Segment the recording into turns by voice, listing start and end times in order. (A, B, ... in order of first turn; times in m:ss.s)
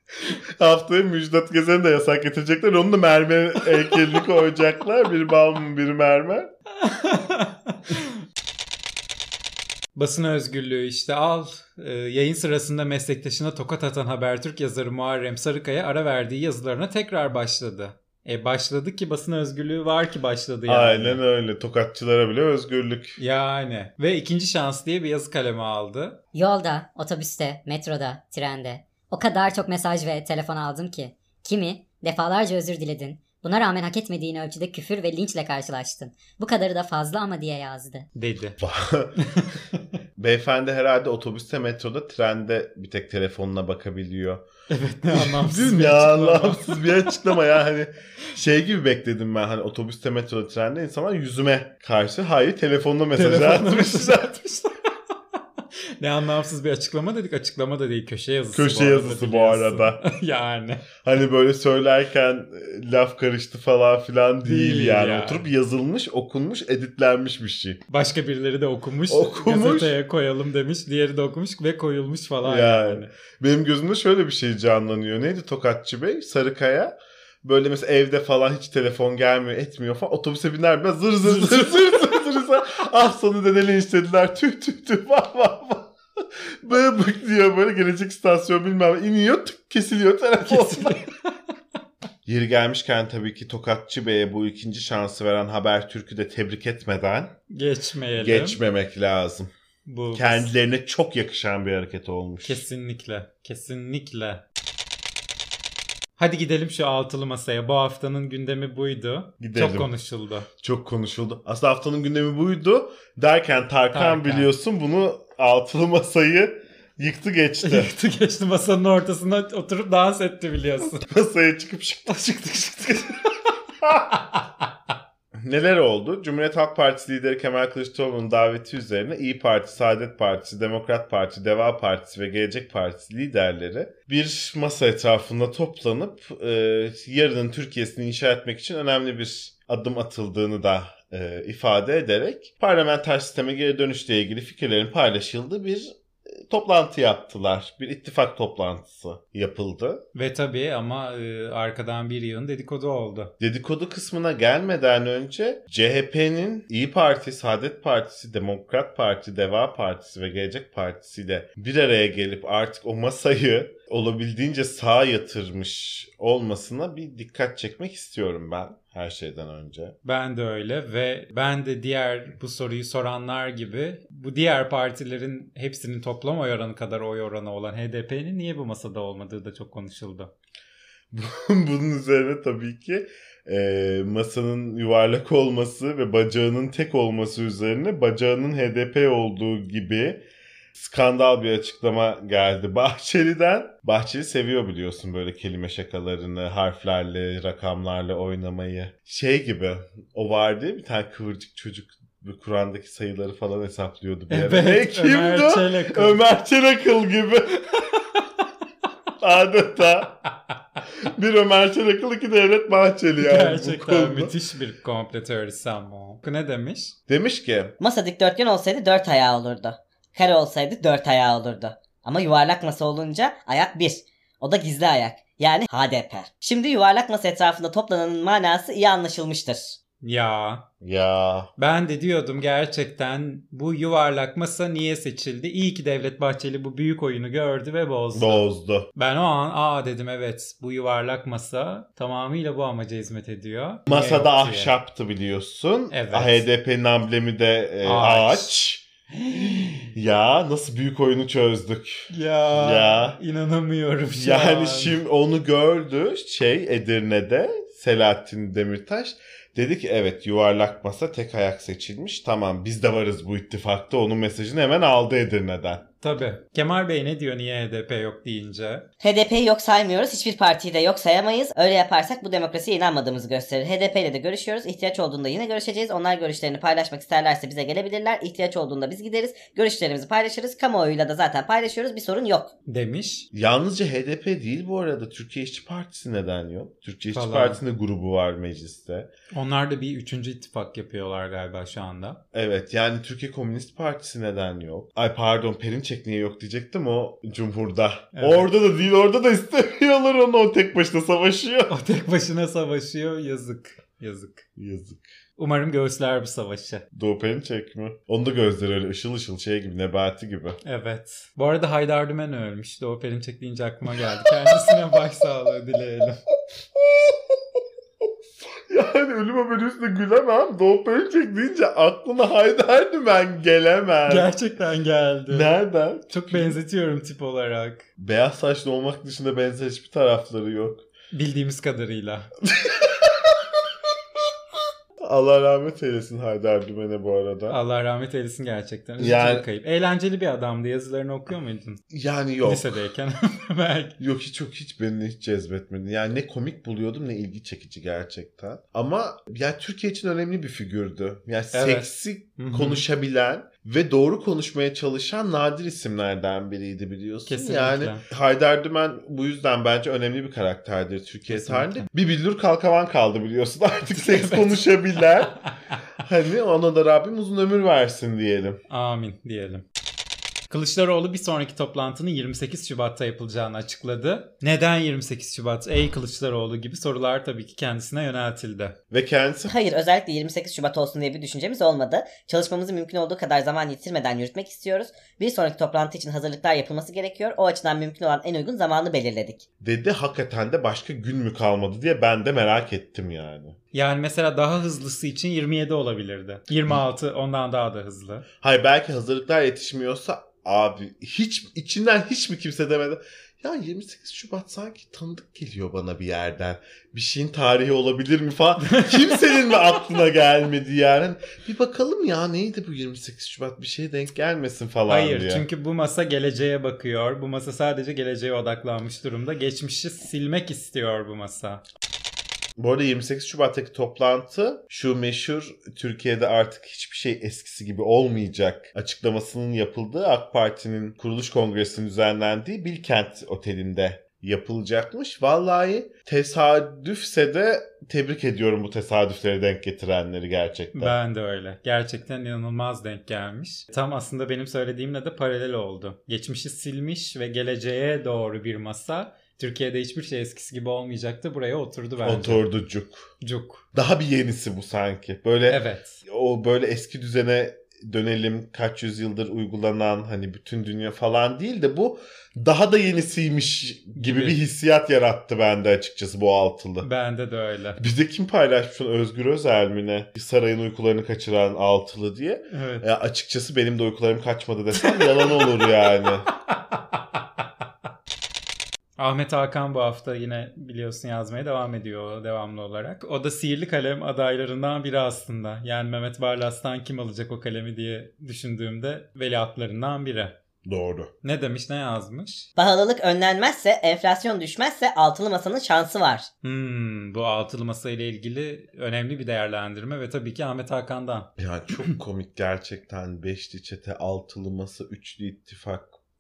0:00.6-0:06.5 A
0:06.8-0:08.1 B
0:10.0-0:21.2 B
0:20.7-0:23.2 A
0:23.2-0:26.2 B
0:26.3-0:38.1 C
0:38.2-0:38.6 B
0:38.6-0:39.2 A
0:39.2-0:39.8 B
0:40.2-0:44.4 A
0:44.7-0:47.4 B
0:45.1-0:54.3 A
0:53.1-0:54.8 B
0:56.0-1:00.8 B
0:58.5-1:00.0 A
1:01.0-1:07.8 A
1:04.4-1:05.5 B
1:07.9-1:13.1 B
1:09.1-1:10.0 A
1:12.4-1:31.0 A
1:21.2-1:22.1 B
1:30.5-1:31.3 B
1:32.3-1:37.4 A
1:37.5-1:38.6 B
1:38.2-1:39.5 A
1:39.9-1:40.5 B
1:40.1-1:42.6 A
1:42.4-1:44.4 B
1:46.2-1:50.5 B
1:49.4-1:49.9 A
1:50.6-1:57.9 A
1:53.9-1:54.5 B
1:57.6-2:01.0 B
2:01.0-2:03.0 A
2:02.1-2:03.3 B
2:04.2-2:04.4 B
2:05.4-2:30.0 A
2:30.2-2:33.3 B
2:33.4-2:50.0 A
2:50.0-3:00.3 B
3:01.1-3:10.2 A
3:10.7-3:27.9 A
3:24.3-3:26.2 B
3:29.2-3:30.2 A
3:31.0-3:34.3 A
3:33.2-3:37.0 B
3:37.1-3:37.8 A
3:37.8-3:49.8 D
3:50.0-3:50.6 B
3:50.8-3:51.5 A
3:51.6-4:04.7 B
3:58.1-3:58.9 A
4:03.9-4:13.2 A
4:05.9-4:06.5 B
4:07.8-4:08.5 B
4:09.3-4:09.8 B
4:12.1-4:15.0 B
4:14.1-4:25.8 A
4:26.0-4:28.8 B
4:29.0-4:42.5 D
4:42.7-4:43.3 B
4:43.3-4:49.1 A
4:47.1-4:47.6 B
4:49.3-4:52.2 B
4:52.3-5:01.7 A
4:58.2-4:58.5 B
5:01.7-5:04.5 B
5:04.6-5:05.1 A
5:05.4-5:06.8 B
5:07.0-5:10.6 A
5:10.6-5:16.2 B
5:14.2-5:14.8 A
5:16.8-5:17.4 A
5:18.5-5:24.3 A
5:24.1-5:25.5 B
5:25.3-5:26.6 A
5:26.1-5:27.9 B
5:28.0-5:30.9 A
5:31.1-5:32.3 B
5:32.5-5:33.6 A
5:35.0-5:37.6 A
5:37.5-5:41.8 B
5:39.0-5:39.4 A
5:41.9-5:42.7 A
5:42.4-5:44.0 B
5:44.0-6:05.4 A
5:51.5-5:52.8 B
5:57.3-5:58.0 B
6:01.3-6:01.9 B
6:03.9-6:04.6 B
6:06.0-6:08.6 A
6:08.7-6:09.6 B
6:10.5-6:18.8 B
6:18.9-6:19.5 A
6:19.5-6:29.4 D
6:29.6-6:33.6 A
6:33.7-6:38.3 B
6:38.4-6:55.4 A
6:48.6-6:49.5 B
6:54.9-7:01.6 B
7:02.6-7:21.0 A
7:20.7-7:32.5 B
7:32.0-7:33.1 A
7:33.2-7:33.6 B
7:33.8-7:46.9 A
7:35.5-7:36.0 B
7:44.0-7:44.4 B
7:46.8-7:47.8 B
7:47.8-7:56.3 A
7:52.5-7:52.8 B
7:54.8-7:55.5 B
7:59.0-8:10.4 B
8:10.6-8:11.1 A
8:11.2-8:12.5 B
8:12.6-8:16.3 D
8:16.4-8:21.3 B
8:21.4-8:26.0 A